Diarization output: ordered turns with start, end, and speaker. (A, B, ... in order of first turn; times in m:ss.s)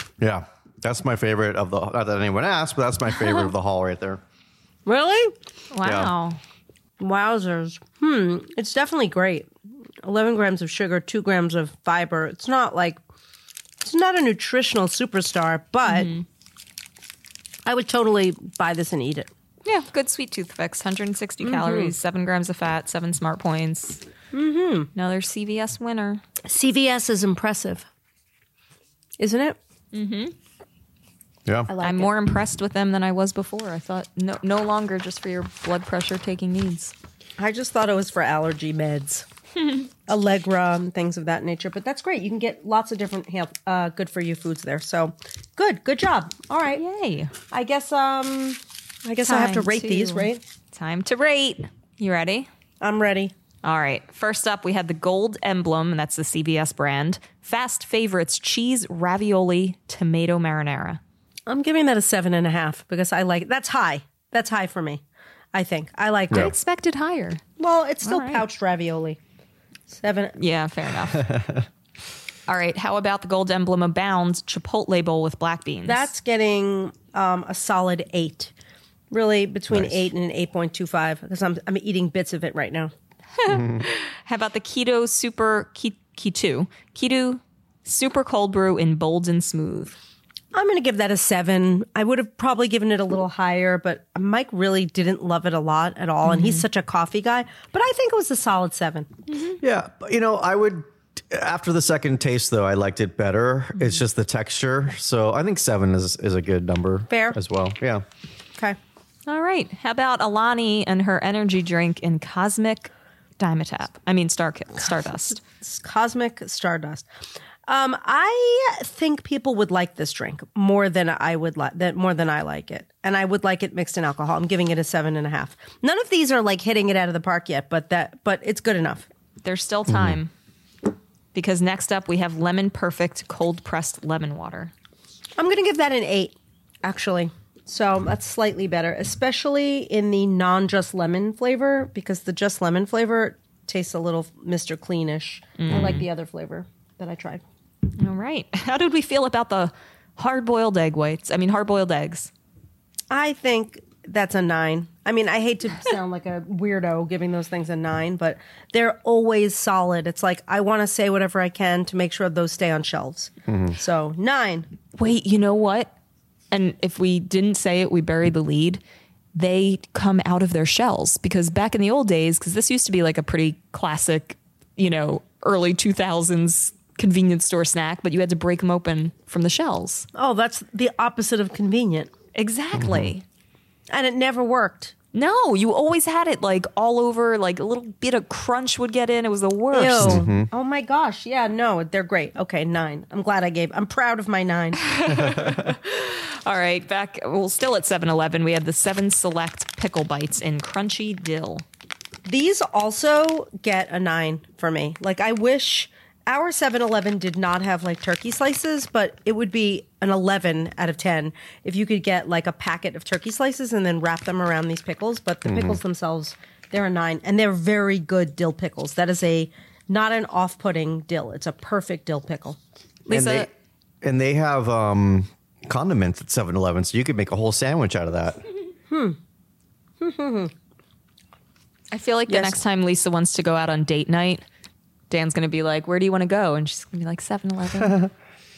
0:00.2-0:04.2 A
0:04.9-0:05.4 B
0:05.7-0:06.4 C
0:05.8-0:06.1 A
0:07.0-0:09.5 B
0:10.0-0:13.0 B
0:13.8-0:16.1 B
0:15.9-0:16.2 C
0:17.6-0:19.3 B
0:19.6-0:24.0 C
0:21.4-0:22.0 B
0:24.3-0:24.9 B
0:24.9-0:26.2 C
0:26.4-0:27.9 B
0:29.2-0:29.6 B
0:29.9-0:30.4 C
0:31.7-0:32.1 B
0:31.8-0:36.9 C
0:37.4-0:39.3 B
0:40.1-0:46.8 B
0:46.8-0:47.3 C
0:47.5-0:50.4 B
0:49.2-0:52.5 C
0:52.8-0:53.3 B
0:53.6-1:01.0 C
1:01.5-1:05.0 B
1:05.5-1:06.5 B
1:06.3-1:07.4 C
1:07.6-1:09.2 B
1:08.0-1:08.4 C
1:09.9-1:10.4 B
1:10.4-1:11.4 C
1:11.2-1:11.7 A
1:12.5-1:16.1 C
1:15.8-1:18.5 B
1:19.1-1:22.9 B
1:19.7-1:20.1 A
1:23.4-1:30.0 C
1:23.5-1:23.8 A
1:30.5-1:39.2 B
1:36.2-1:36.6 C
1:39.3-1:39.6 C
1:39.6-1:48.0 A
1:47.1-1:47.4 B
1:49.3-1:55.4 C
1:55.4-1:57.1 B
1:57.7-2:09.1 B
2:09.4-2:10.3 C
2:09.9-2:10.2 A
2:11.3-2:14.7 C
2:15.4-2:27.4 B
2:25.6-2:26.1 C
2:28.0-2:32.3 C
2:33.1-2:44.7 B
2:43.5-2:43.8 A
2:45.0-2:45.9 C
2:46.5-2:48.8 C
2:49.3-3:00.1 C
3:00.2-3:02.1 B
3:02.4-3:03.2 C
3:02.8-3:03.1 A
3:03.9-3:04.9 B
3:05.1-3:10.2 C
3:09.7-3:14.8 B
3:10.0-3:10.5 A
3:14.8-3:21.6 C
3:15.1-3:15.7 A
3:22.3-3:42.6 B
3:35.5-3:35.8 A
3:43.1-3:43.5 C
3:43.1-3:43.5 A
3:44.0-3:48.4 A
3:48.9-3:49.2 B
3:50.0-3:50.5 B
3:51.9-3:54.4 C
3:52.3-3:52.6 B
3:55.1-3:58.0 C
3:57.8-3:58.1 A